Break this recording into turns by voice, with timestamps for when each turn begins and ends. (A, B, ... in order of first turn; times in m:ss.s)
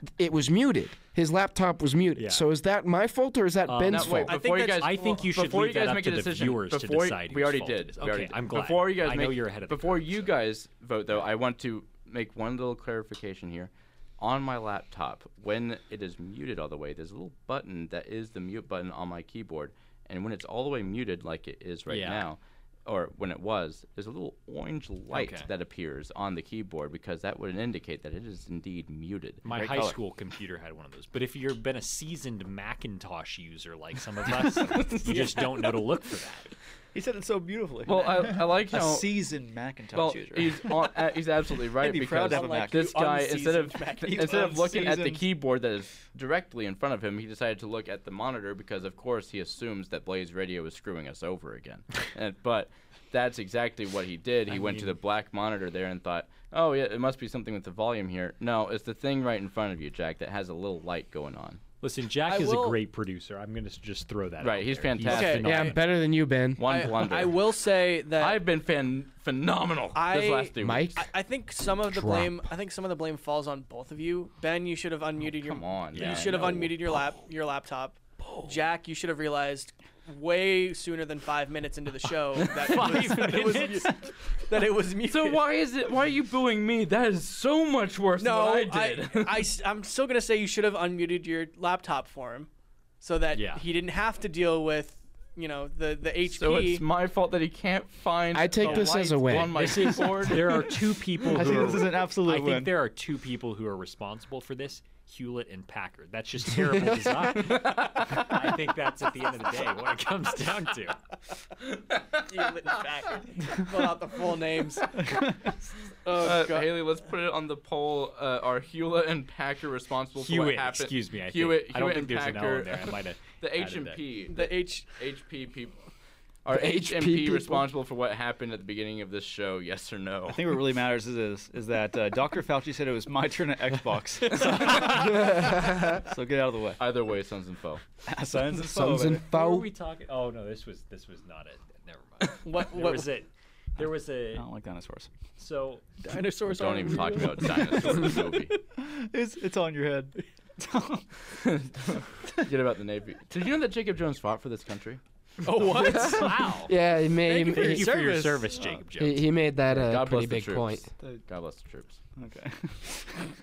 0:00.2-0:04.3 A
0:02.2-0:02.5 B
0:03.6-0:10.3 B
0:03.9-0:29.4 C
0:04.2-0:05.3 D
0:21.9-0:22.3 B
0:25.1-0:25.5 B
0:29.4-0:36.5 B
0:29.5-0:30.0 E
0:34.4-0:35.6 C
0:36.9-0:40.7 E
0:37.8-0:39.3 C
0:39.9-1:01.6 C
0:41.8-0:42.8 E
0:41.8-0:44.7 D
0:44.0-0:45.2 E
0:54.5-0:55.0 B
1:01.8-1:05.8 B
1:02.2-1:02.8 D
1:04.4-1:05.8 C
1:05.0-1:05.8 D
1:05.4-1:06.6 A
1:06.6-1:07.6 C
1:06.6-1:08.4 D
1:08.2-1:11.0 C
1:09.9-1:25.4 D
1:10.6-1:11.0 A
1:11.8-1:12.4 A
1:15.2-1:16.7 C
1:15.9-1:16.6 B
1:22.4-1:23.0 C
1:22.5-1:23.9 B
1:25.1-1:29.5 C
1:28.2-1:32.5 D
1:33.0-1:36.8 D
1:33.3-1:33.6 B
1:36.3-1:40.7 C
1:38.3-1:39.8 A
1:39.5-1:51.0 B
1:41.3-1:42.8 E
1:47.6-1:48.2 C
1:52.2-1:55.1 D
1:55.9-1:57.0 D
1:56.1-2:05.8 C
2:00.2-2:04.0 B
2:04.3-2:05.0 D
2:06.4-2:10.6 C
2:06.5-2:07.6 A
2:10.3-2:16.8 E
2:14.3-2:15.1 D
2:16.8-2:17.8 C
2:18.0-2:19.2 E
2:18.5-2:19.7 A
2:18.8-2:24.5 B
2:22.4-2:23.1 D
2:24.3-2:25.1 E
2:25.4-2:25.9 B
2:26.0-2:28.6 D
2:26.5-2:28.5 C
2:28.8-2:31.1 E
2:31.4-2:35.0 C
2:35.4-2:36.6 D
2:35.7-2:36.8 B
2:35.9-2:37.9 A
2:37.2-2:38.6 D
2:37.4-2:39.3 B
2:39.0-2:40.8 A
2:39.7-2:42.0 C
2:42.2-2:43.2 E